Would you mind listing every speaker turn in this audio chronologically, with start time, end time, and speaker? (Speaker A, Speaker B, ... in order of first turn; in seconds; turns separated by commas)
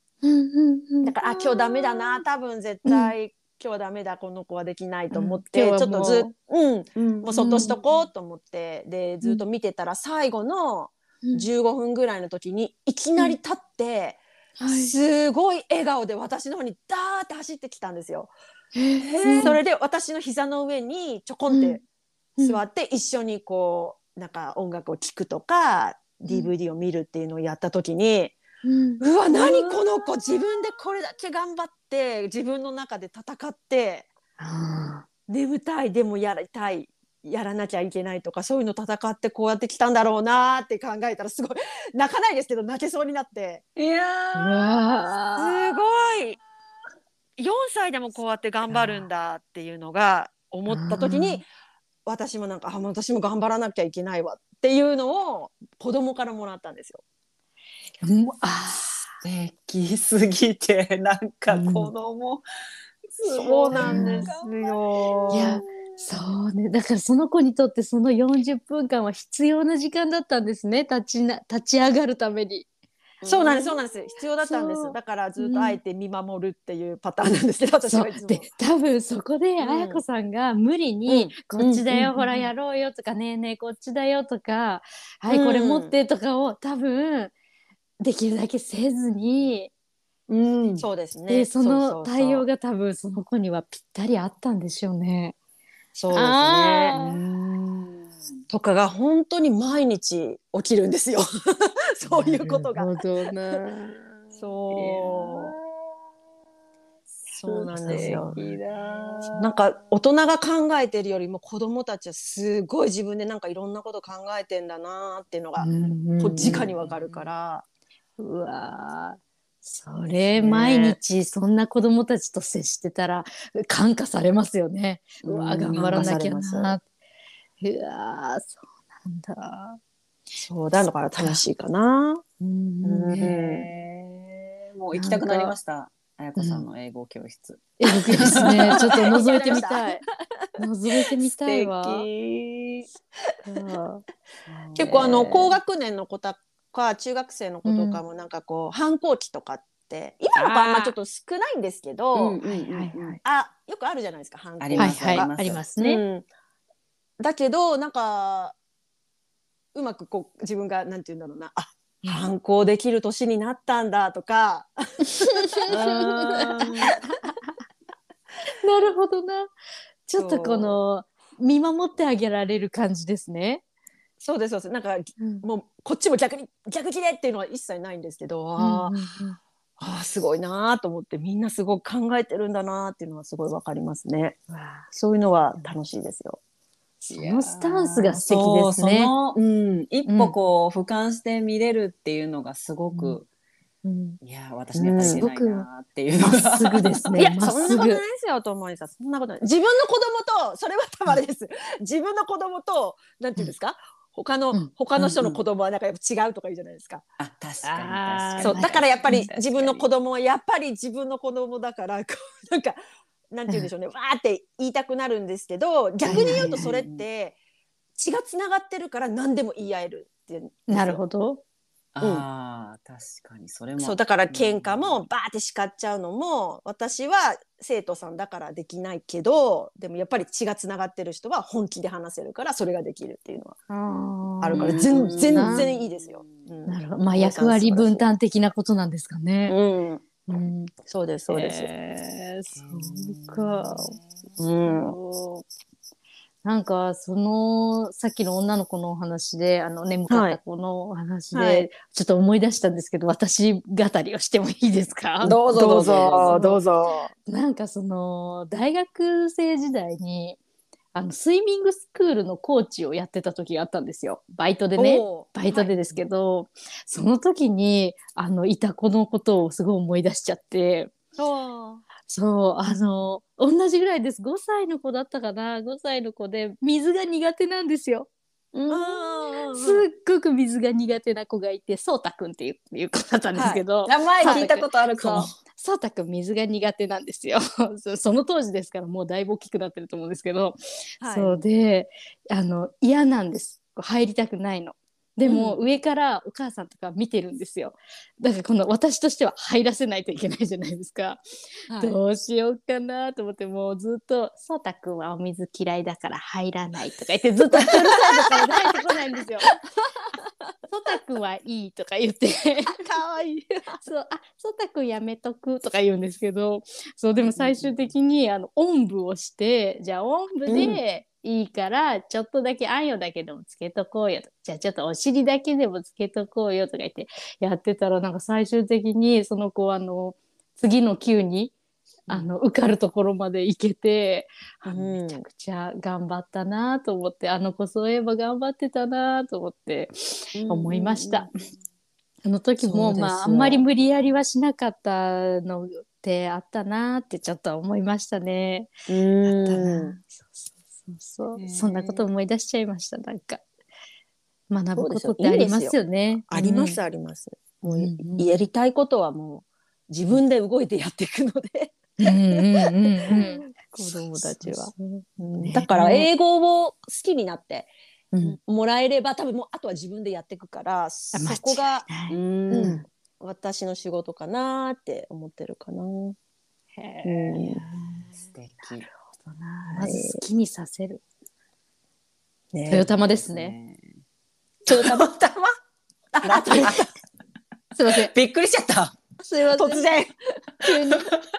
Speaker A: 0.2-2.2, Speaker B: 1.0-18.3, Speaker A: 2.9-3.1, Speaker A: 5.1-6.3, Speaker C: 7.0-7.4, Speaker A: 7.3-7.8, Speaker A: 14.6-14.9, Speaker A: 18.8-19.6, Speaker B: 19.0-21.8, Speaker A: 21.5-21.8, Speaker B: 22.4-28.4, Speaker A: 28.6-29.0, Speaker B: 29.0-34.1, Speaker A: 34.4-35.0, Speaker B: 35.3-43.6, Speaker C: 43.8-44.7, Speaker A: 44.3-45.6, Speaker B: 45.4-46.4, Speaker B: 47.4-51.5, Speaker A: 48.7-49.1, Speaker A: 50.7-51.4, Speaker B: 52.1-57.0, Speaker A: 58.0-59.1, Speaker C: 59.2-62.4, Speaker A: 61.5-61.9, Speaker C: 63.1-66.0, Speaker B: 63.3-65.6, Speaker A: 63.8-64.3, Speaker A: 65.3-72.7, Speaker C: 73.2-73.5, Speaker B: 73.2-78.5, Speaker A: 73.4-73.8, Speaker A: 74.4-75.8, Speaker A: 77.9-87.3, Speaker B: 79.6-80.0, Speaker B: 81.1-82.5, Speaker B: 85.3-85.9, Speaker A: 88.0-89.7, Speaker C: 90.3-90.8, Speaker B: 90.8-92.5, Speaker A: 91.3-95.4, Speaker B: 96.0-97.0, Speaker A: 96.1-97.2, Speaker C: 96.9-98.0, Speaker B: 98.5-103.0, Speaker A: 102.1-104.1, Speaker B: 104.4-105.5, Speaker C: 104.7-106.0, Speaker B: 107.3-108.4, Speaker A: 107.5-108.4, Speaker C: 107.9-109.6, Speaker B: 109.4-117.6, Speaker A: 115.6-116.7, Speaker C: 116.4-117.0, Speaker A: 118.2-126.8, Speaker B: 120.4-121.0, Speaker C: 125.2-126.2, Speaker B: 125.7-126.8, Speaker A: 127.6-129.8, Speaker B: 130.4-132.2, Speaker A: 132.4-133.3, Speaker B: 132.8-133.7, Speaker C: 133.1-139.2, Speaker A: 134.9-135.6, Speaker A: 136.4-136.7, Speaker A: 137.8-140.0, Speaker B: 138.2-140.0, Speaker A: 140.6-142.1, Speaker C: 141.4-142.9, Speaker A: 143.5-144.1, Speaker C: 144.5-145.6, Speaker B: 144.8-152.4, Speaker A: 147.7-148.0, Speaker A: 150.4-150.9, Speaker C: 152.2-153.2, Speaker A: 152.4-153.2, Speaker B: 153.2-156.3, Speaker C: 154.6-155.7, Speaker A: 154.8-156.0, Speaker B: 157.2-158.6, Speaker B: 159.7-167.0, Speaker A: 162.0-162.3, Speaker A: 165.1-167.5, Speaker A: 168.6-169.5, Speaker A: 170.1-173.6, Speaker B: 170.2-170.8, Speaker B: 174.2-178.9, Speaker A: 175.2-175.4, Speaker A: 178.6-179.4, Speaker B: 179.8-184.4, Speaker A: 184.5-184.9, Speaker B: 184.9-186.4, Speaker A: 187.0-189.1, Speaker C: 187.1-193.3, Speaker A: 190.1-190.3, Speaker A: 192.9-193.2, Speaker A: 193.8-194.2, Speaker C: 194.2-197.1, Speaker B: 194.7-195.2, Speaker A: 195.0-195.7, Speaker A: 196.2-198.0, Speaker B: 197.2-207.0, Speaker C: 205.0-205.4, Speaker C: 207.2-209.9, Speaker A: 207.6-209.3, Speaker B: 208.4-212.8, Speaker B: 213.3-217.4, Speaker A: 216.0-216.7, Speaker C: 216.1-217.1, Speaker B: 218.0-221.0, Speaker A: 220.7-221.4, Speaker C: 221.9-225.0, Speaker B: 223.8-233.6, Speaker A: 233.7-235.7, Speaker B: 234.4-238.1, Speaker C: 234.5-236.5, Speaker A: 236.7-239.6, Speaker B: 239.5-240.0, Speaker A: 240.3-240.7, Speaker B: 240.9-241.7, Speaker A: 241.3-244.0, Speaker C: 242.6-244.3, Speaker B: 244.4-244.9, Speaker A: 244.7-245.4, Speaker A: 246.4-255.4, Speaker B: 250.1-250.4, Speaker B: 251.3-251.7, Speaker C: 255.2-256.4, Speaker B: 255.5-257.1, Speaker A: 256.3-256.6, Speaker A: 257.3-260.4, Speaker A: 260.9-270.9, Speaker B: 264.8-266.0, Speaker B: 271.2-271.8, Speaker A: 272.1-278.1, Speaker B: 278.7-279.9, Speaker A: 279.5-301.2, Speaker B: 283.3-284.5, Speaker C: 283.9-285.3, Speaker B: 291.0-291.4, Speaker B: 295.2-295.6, Speaker B: 301.7-302.0, Speaker A: 301.8-309.5, Speaker B: 307.6-308.5, Speaker B: 309.9-310.2, Speaker A: 310.7-312.8, Speaker B: 312.7-313.8, Speaker A: 313.8-331.5, Speaker B: 317.4-317.6, Speaker B: 320.5-320.8, Speaker A: 332.1-341.3, Speaker B: 334.6-335.2, Speaker A: 342.2-348.7, Speaker B: 342.6-343.6, Speaker B: 348.9-350.0, Speaker A: 349.2-353.4, Speaker C: 351.4-352.0, Speaker A: 354.5-356.8, Speaker B: 354.8-355.8, Speaker B: 356.3-367.7, Speaker A: 357.6-358.4, Speaker A: 362.0-366.1, Speaker A: 368.1-368.4, Speaker B: 368.3-371.9, Speaker A: 371.1-372.9, Speaker C: 372.1-372.8, Speaker B: 372.5-376.2, Speaker A: 376.8-378.2, Speaker B: 377.0-377.6, Speaker C: 378.2-378.9, Speaker A: 379.1-381.0, Speaker B: 379.7-380.2, Speaker B: 382.5-382.9, Speaker A: 382.7-383.6, Speaker C: 383.0-383.8, Speaker C: 384.7-385.5, Speaker B: 384.7-385.1, Speaker B: 386.1-386.9, Speaker C: 386.3-386.8, Speaker A: 387.8-388.1, Speaker C: 388.0-389.0, Speaker A: 389.2-389.9, Speaker B: 389.5-391.1, Speaker A: 390.6-391.0